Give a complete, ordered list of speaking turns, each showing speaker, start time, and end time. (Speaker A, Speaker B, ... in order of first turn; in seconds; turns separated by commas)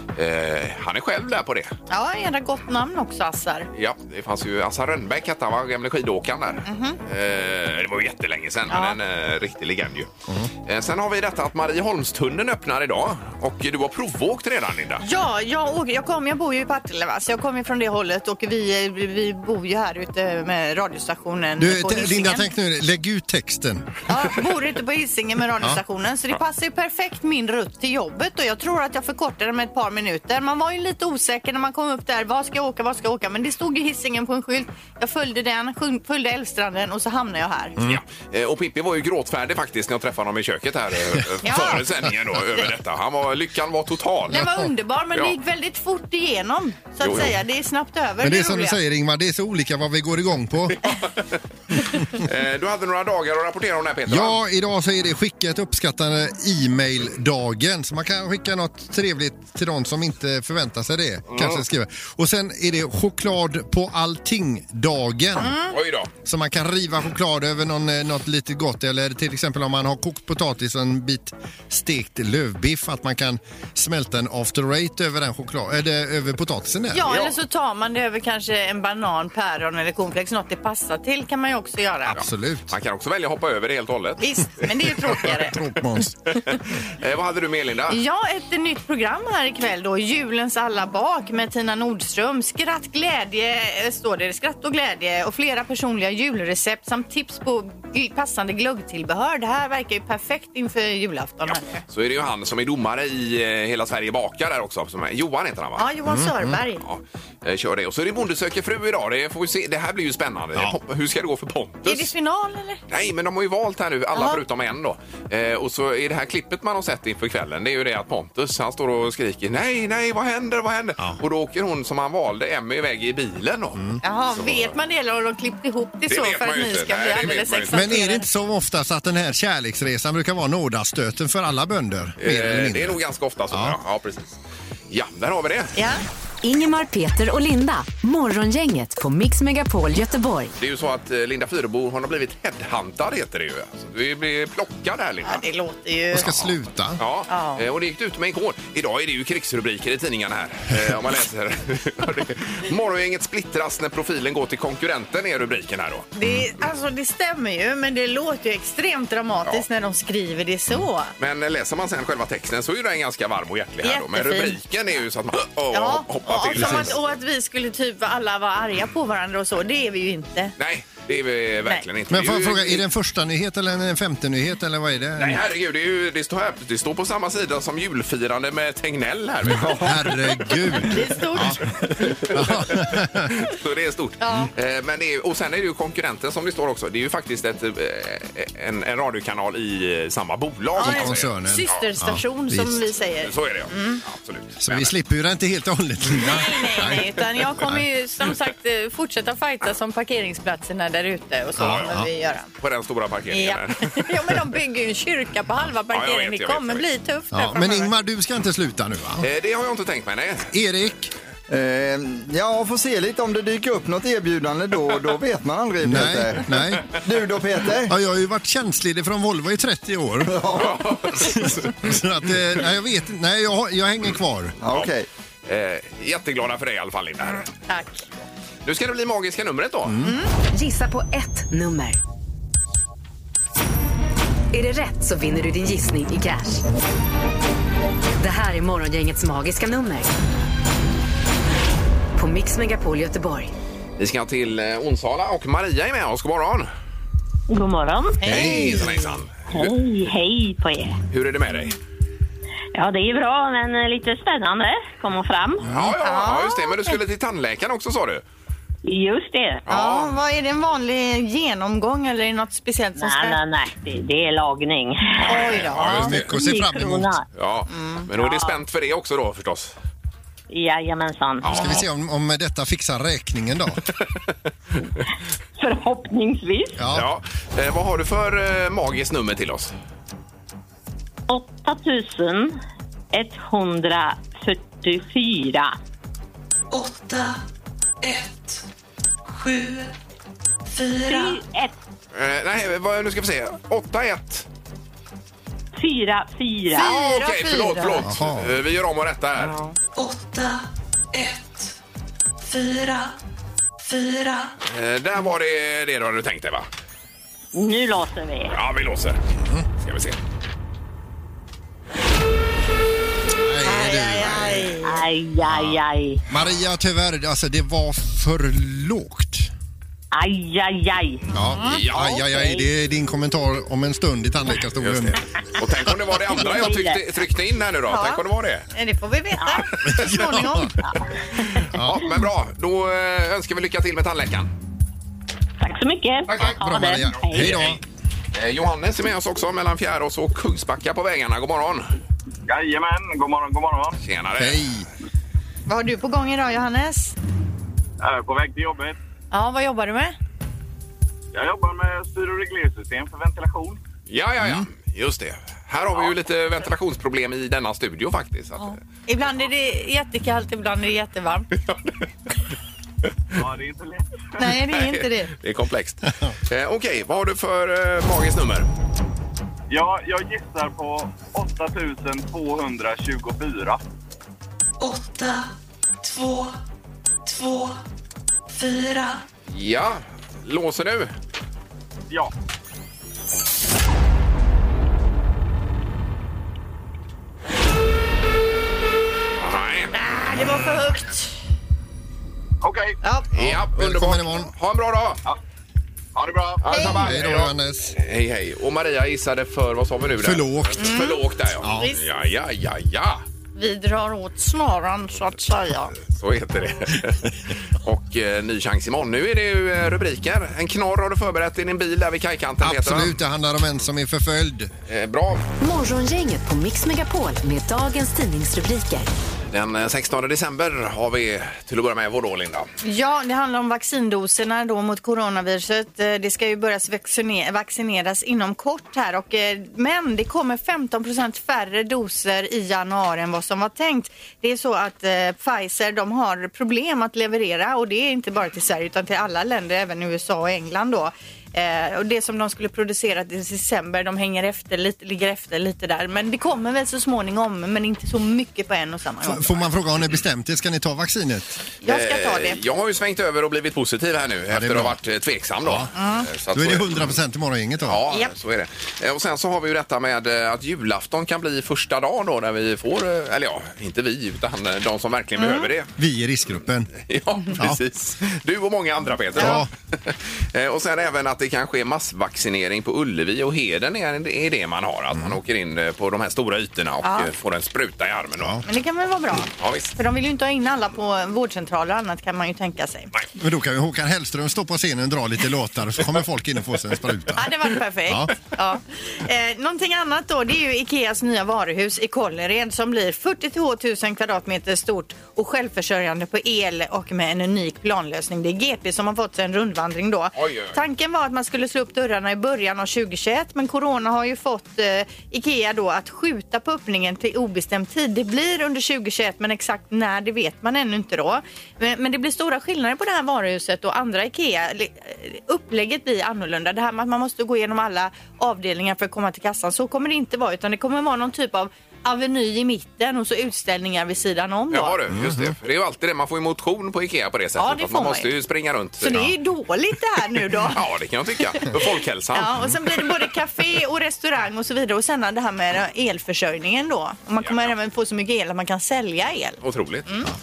Speaker A: 0.2-1.7, Speaker B: 1.9-3.7, Speaker A: 3.7-10.1, Speaker B: 6.7-7.0, Speaker B: 8.7-9.0, Speaker A: 10.7-15.0, Speaker B: 15.0-22.5, Speaker C: 21.6-23.9, Speaker B: 24.1-37.8, Speaker A: 37.8-44.5, Speaker B: 41.4-41.8, Speaker B: 44.3-48.8, Speaker C: 44.4-44.6, Speaker A: 47.0-47.3, Speaker C: 48.2-50.8, Speaker A: 50.8-51.4, Speaker A: 52.1-54.4, Speaker C: 54.1-65.6, Speaker A: 61.3-61.6, Speaker B: 65.4-65.7, Speaker A: 65.7-66.1, Speaker C: 66.2-77.2, Speaker B: 76.9-82.2, Speaker C: 82.1-82.7, Speaker A: 82.2-84.2, Speaker B: 84.2-85.6, Speaker C: 84.8-86.2, Speaker A: 87.0-88.0, Speaker B: 87.9-101.8, Speaker A: 101.9-105.9, Speaker B: 105.8-106.8, Speaker C: 106.1-106.6, Speaker A: 106.8-112.1, Speaker B: 111.9-112.8, Speaker A: 112.9-123.8, Speaker B: 114.1-114.4, Speaker C: 123.8-124.0, Speaker B: 124.0-128.3, Speaker A: 124.3-124.8, Speaker A: 126.1-127.8, Speaker C: 127.7-133.0, Speaker A: 132.2-134.4, Speaker C: 133.5-133.8, Speaker A: 134.9-135.8, Speaker B: 135.8-136.0, Speaker D: 136.4-140.5, Speaker A: 140.6-145.4, Speaker B: 145.2-146.5, Speaker C: 146.1-147.0, Speaker A: 147.0-156.1, Speaker B: 147.3-147.6, Speaker B: 156.2-161.1, Speaker C: 156.2-156.5, Speaker A: 161.2-167.0, Speaker B: 163.8-164.6, Speaker B: 165.7-170.5, Speaker C: 166.5-166.9, Speaker A: 170.6-172.8, Speaker C: 172.1-175.4, Speaker A: 175.2-180.2, Speaker C: 179.4-181.6, Speaker B: 180.8-181.6, Speaker A: 181.8-191.3, Speaker C: 182.2-183.3, Speaker B: 184.2-184.5, Speaker B: 190.8-194.0, Speaker C: 190.8-192.9, Speaker A: 193.2-194.9, Speaker C: 194.6-197.8, Speaker B: 196.2-202.5, Speaker C: 201.6-202.1, Speaker A: 201.6-202.1, Speaker A: 202.6-204.1, Speaker B: 203.3-207.9, Speaker A: 205.9-206.8, Speaker C: 207.3-209.3, Speaker A: 209.2-210.5, Speaker C: 210.5-211.1, Speaker E: 211.5-217.9, Speaker C: 215.8-216.9, Speaker C: 217.9-220.4, Speaker E: 220.2-221.3, Speaker A: 220.6-222.0, Speaker C: 221.1-224.6, Speaker E: 224.6-225.1, Speaker A: 225.4-227.5, Speaker B: 227.7-228.1, Speaker A: 228.7-230.0, Speaker C: 229.9-230.2, Speaker D: 230.4-232.0, Speaker D: 234.5-236.6, Speaker D: 238.2-240.1, Speaker D: 242.2-243.5, Speaker A: 244.0-246.7, Speaker F: 247.5-248.9, Speaker B: 248.2-249.2, Speaker A: 248.2-249.8, Speaker F: 249.5-251.0, Speaker A: 251.1-251.8, Speaker F: 252.7-255.7, Speaker A: 255.7-258.2, Speaker B: 256.0-257.0, Speaker F: 258.9-259.6, Speaker A: 259.7-260.2, Speaker B: 259.7-263.4, Speaker F: 263.0-265.7, Speaker B: 265.3-266.1, Speaker A: 265.5-266.3, Speaker C: 265.5-267.1, Speaker F: 266.2-267.3, Speaker A: 267.4-269.8, Speaker B: 267.7-268.1, Speaker F: 268.2-268.6, Speaker F: 270.5-271.8, Speaker A: 271.4-271.8, Speaker C: 271.4-273.8, Speaker F: 275.6-276.8, Speaker C: 276.8-277.1, Speaker A: 276.9-279.7, Speaker F: 281.3-282.6, Speaker F: 283.1-285.8, Speaker G: 286.7-287.4, Speaker G: 288.0-288.7, Speaker G: 289.3-289.9, Speaker G: 290.7-291.4, Speaker F: 291.1-291.8, Speaker A: 292.1-294.5, Speaker F: 295.8-296.9, Speaker B: 296.7-298.1, Speaker A: 296.7-299.6, Speaker C: 298.0-298.6, Speaker G: 299.9-301.8, Speaker G: 302.4-303.2, Speaker G: 303.8-304.5, Speaker A: 304.7-306.7, Speaker F: 307.5-308.6, Speaker A: 308.5-309.2, Speaker A: 309.8-310.2, Speaker C: 313.4-314.8, Speaker B: 313.6-315.0, Speaker F: 314.8-316.2, Speaker C: 315.4-319.5, Speaker F: 320.1-321.3, Speaker C: 321.3-325.2, Speaker B: 321.6-321.8, Speaker A: 321.6-322.2, Speaker F: 322.0-322.7, Speaker A: 324.8-328.7, Speaker C: 325.9-326.6, Speaker F: 326.3-327.1, Speaker B: 327.9-330.7, Speaker F: 329.4-329.7, Speaker C: 329.9-330.7, Speaker A: 331.7-334.5, Speaker C: 331.7-332.2, Speaker F: 335.6-337.6, Speaker C: 336.3-337.8, Speaker A: 337.3-337.8, Speaker A: 338.3-341.9, Speaker H: 342.5-344.0, Speaker A: 344.0-344.7, Speaker C: 344.4-344.9, Speaker B: 345.7-347.2, Speaker H: 348.0-349.0, Speaker B: 349.3-350.2, Speaker H: 351.3-353.8, Speaker A: 354.1-358.7, Speaker C: 354.4-354.7, Speaker B: 358.6-361.5, Speaker H: 363.4-364.4, Speaker B: 364.4-365.3, Speaker A: 364.6-368.7, Speaker H: 369.7-373.8, Speaker G: 374.8-376.6, Speaker G: 377.2-377.8, Speaker G: 378.5-379.2, Speaker A: 379.5-381.1, Speaker A: 389.4-389.9, Speaker B: 389.9-391.3, Speaker H: 392.6-393.0, Speaker B: 393.0-393.3, Speaker C: 393.3-394.5, Speaker A: 393.3-395.2, Speaker H: 396.2-397.4, Speaker A: 396.6-403.2, Speaker B: 396.7-397.1, Speaker C: 397.0-398.0, Speaker C: 400.2-401.0, Speaker B: 400.8-401.2, Speaker C: 401.6-401.9, Speaker B: 401.8-402.0, Speaker B: 403.6-405.9, Speaker A: 406.0-413.2, Speaker C: 412.6-414.7, Speaker A: 414.9-415.4, Speaker D: 415.6-419.1, Speaker A: 419.5-422.7, Speaker B: 422.8-449.7, Speaker C: 449.2-451.6, Speaker B: 451.8-452.6, Speaker A: 451.9-457.2, Speaker C: 454.5-455.0, Speaker C: 455.6-455.9, Speaker B: 455.9-456.3, Speaker C: 456.5-458.0, Speaker A: 457.8-465.9, Speaker B: 465.4-465.7, Speaker C: 466.0-466.9, Speaker A: 467.0-478.6, Speaker C: 469.4-469.7, Speaker B: 477.0-477.3, Speaker C: 478.4-478.6, Speaker B: 478.7-483.1, Speaker A: 479.6-479.9, Speaker C: 483.4-487.5, Speaker B: 487.4-525.0, Speaker C: 488.1-488.3, Speaker A: 500.4-500.8, Speaker A: 524.7-529.2, Speaker C: 525.1-525.6, Speaker B: 527.6-528.3, Speaker B: 529.0-530.8, Speaker A: 530.7-532.6, Speaker B: 531.6-540.3, Speaker A: 537.4-537.7, Speaker A: 539.6-540.1